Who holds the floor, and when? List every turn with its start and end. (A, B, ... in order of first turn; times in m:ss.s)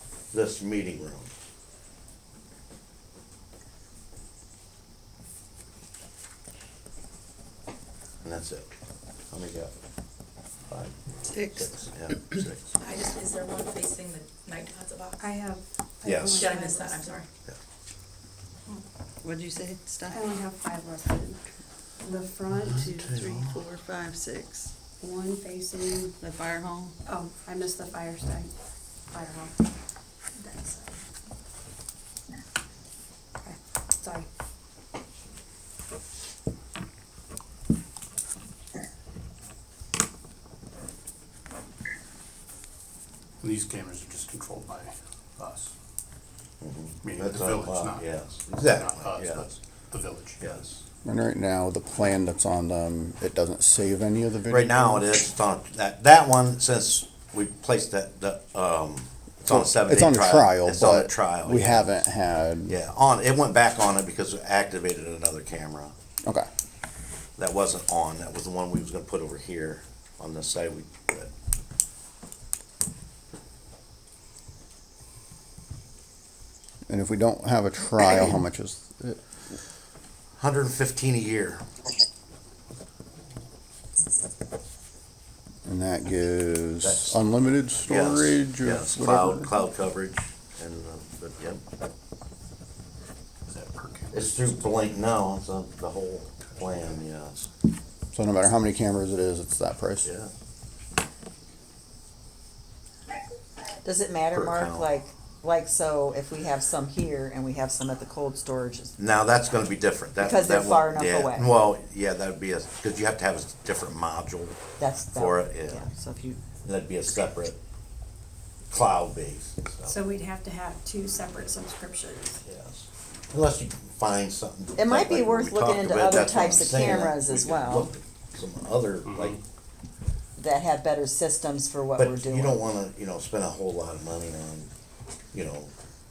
0:00.3-0:01.3 A
0:08.2-0:08.7 A
0:09.3-0:09.7 A
0:10.7-0:12.7 A
0:11.3-0:11.6 B
0:12.8-0:15.2 C
0:15.2-0:17.2 D
0:16.0-0:16.5 A
0:16.4-0:17.3 C
0:19.2-0:20.2 B
0:20.1-0:21.4 D
0:22.0-0:22.8 D
0:22.5-0:23.6 A
0:23.4-0:24.6 B
0:25.0-0:26.1 D
0:26.3-0:26.9 B
0:27.0-0:28.5 D
0:29.1-0:29.5 D
0:30.4-0:31.0 D
0:33.4-0:34.3 D
0:43.4-0:45.7 E
0:46.6-0:49.5 A
0:47.0-0:48.1 E
0:48.6-0:50.6 E
0:50.4-0:50.8 A
0:51.0-0:55.0 F
0:54.5-1:01.8 A
0:59.5-1:02.8 F
1:02.7-1:05.9 A
1:07.4-1:11.3 A
1:16.9-1:19.2 F
1:20.4-1:21.6 A
1:25.6-1:29.5 F
1:26.8-1:27.2 A
1:27.8-1:31.6 A
1:33.5-1:34.6 E
1:34.1-1:37.5 A
1:38.1-1:40.1 F
1:40.0-1:40.3 A
1:43.8-1:49.0 G
1:44.3-1:44.9 A
1:49.0-1:54.6 A
1:50.2-1:51.5 G
1:54.8-1:56.4 G
1:55.1-1:55.8 A
1:56.6-1:57.6 A
1:58.7-2:00.0 A
1:59.8-2:02.4 D
2:02.4-2:09.4 A
2:04.8-2:07.9 G
2:09.0-2:09.4 E
2:10.4-2:12.6 G
2:12.0-2:14.7 A
2:15.3-2:15.7 A